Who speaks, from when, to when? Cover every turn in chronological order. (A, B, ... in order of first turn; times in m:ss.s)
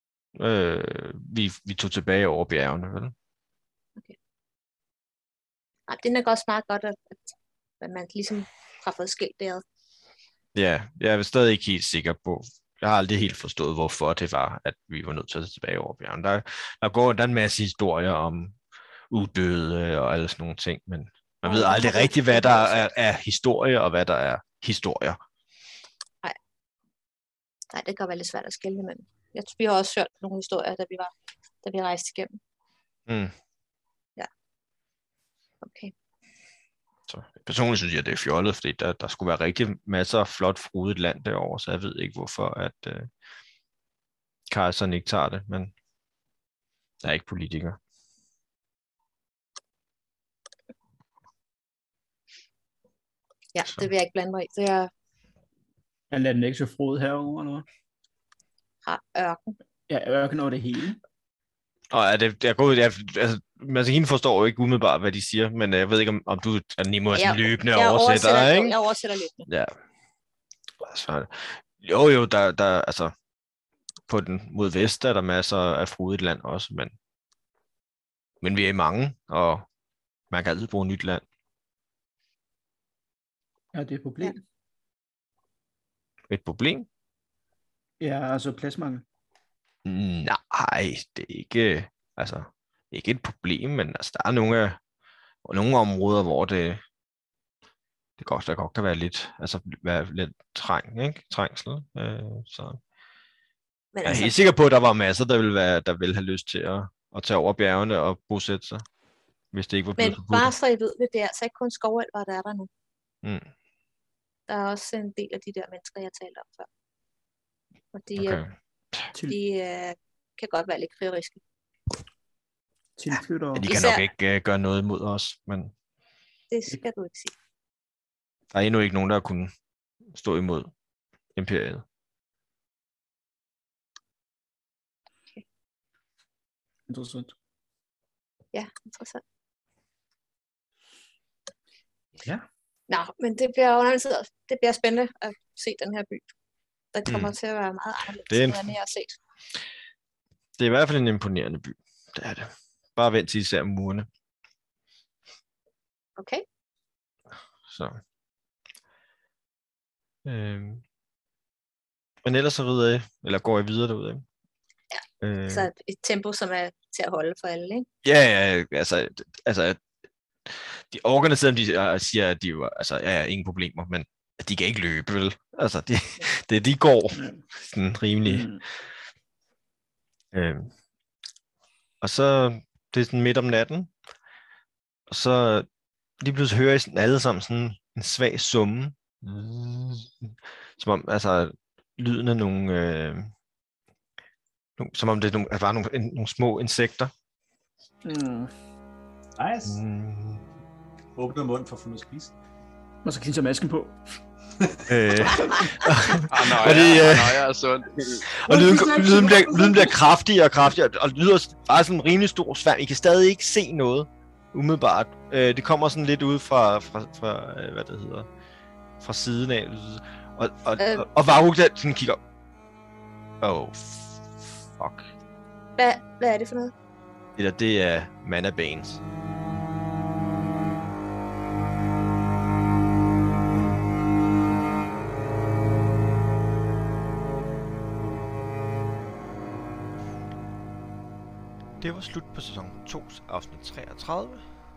0:00.4-0:03.1 A
0:05.9-0:09.6 B
0:10.5-0:18.6 A
0:19.1-0:25.2 A
0:21.4-0:22.9 B
0:27.7-0:31.1 B
0:31.6-0:32.4 B
0:33.1-0:33.3 A
0:35.6-0:35.9 B
0:37.1-0:43.1 A
0:44.5-0:45.7 A
0:47.0-0:47.8 A
0:53.5-0:54.9 B
0:56.1-0:57.6 C
0:58.8-0:59.6 B
0:59.9-1:01.0 C
1:01.9-1:08.7 A
1:07.1-1:09.4 B
1:09.5-1:09.7 A
1:10.8-1:13.1 A
1:14.1-1:16.9 A
1:18.4-1:19.6 A
1:20.3-1:21.2 A
1:23.7-1:24.4 C
1:26.3-1:26.8 A
1:28.0-1:29.0 C
1:29.8-1:34.8 A
1:35.4-1:36.8 A
1:38.2-1:42.8 A
1:43.9-1:44.5 B
1:44.0-1:48.8 A
1:49.5-1:50.5 A
1:50.0-1:52.7 B
1:53.2-1:53.5 A
1:54.5-1:56.7 B
1:57.9-1:58.4 B
1:58.2-1:58.5 A
1:59.2-2:01.4 B
2:03.0-2:03.7 C
2:03.5-2:05.7 A
2:03.7-2:04.1 B
2:06.5-2:07.3 B
2:08.5-2:09.5 A
2:10.1-2:10.7 A
2:11.3-2:11.8 A
2:16.9-2:17.3 C
2:18.5-2:19.2 B
2:22.2-2:22.4 C
2:22.9-2:26.2 B
2:26.9-2:29.2 B
2:27.0-2:27.3 A
2:28.3-2:28.7 A
2:30.6-2:34.1 A
2:36.2-2:36.4 B
2:37.7-2:38.0 A
2:40.2-2:40.8 A
2:42.2-2:44.2 A
2:45.2-2:45.7 A
2:45.5-2:47.8 B
2:48.0-2:49.8 A
2:50.5-2:58.6 A
2:57.1-2:57.4 C
2:58.2-2:58.6 C
3:00.3-3:00.7 A
3:02.0-3:03.9 A
3:05.1-3:05.7 A
3:06.2-3:13.3 A
3:14.8-3:17.1 A
3:18.0-3:18.5 C
3:19.4-3:19.8 D
3:19.7-3:20.4 A
3:21.2-3:22.3 D
3:23.0-3:24.0 C
3:24.9-3:27.4 A
3:26.3-3:28.3 E
3:28.3-3:38.3 A
3:28.4-3:30.0 D
3:39.0-3:42.2 A
3:40.8-3:41.1 B
3:43.4-3:45.0 A
3:45.8-3:46.7 B
3:47.4-3:49.0 A
4:01.8-4:04.4 A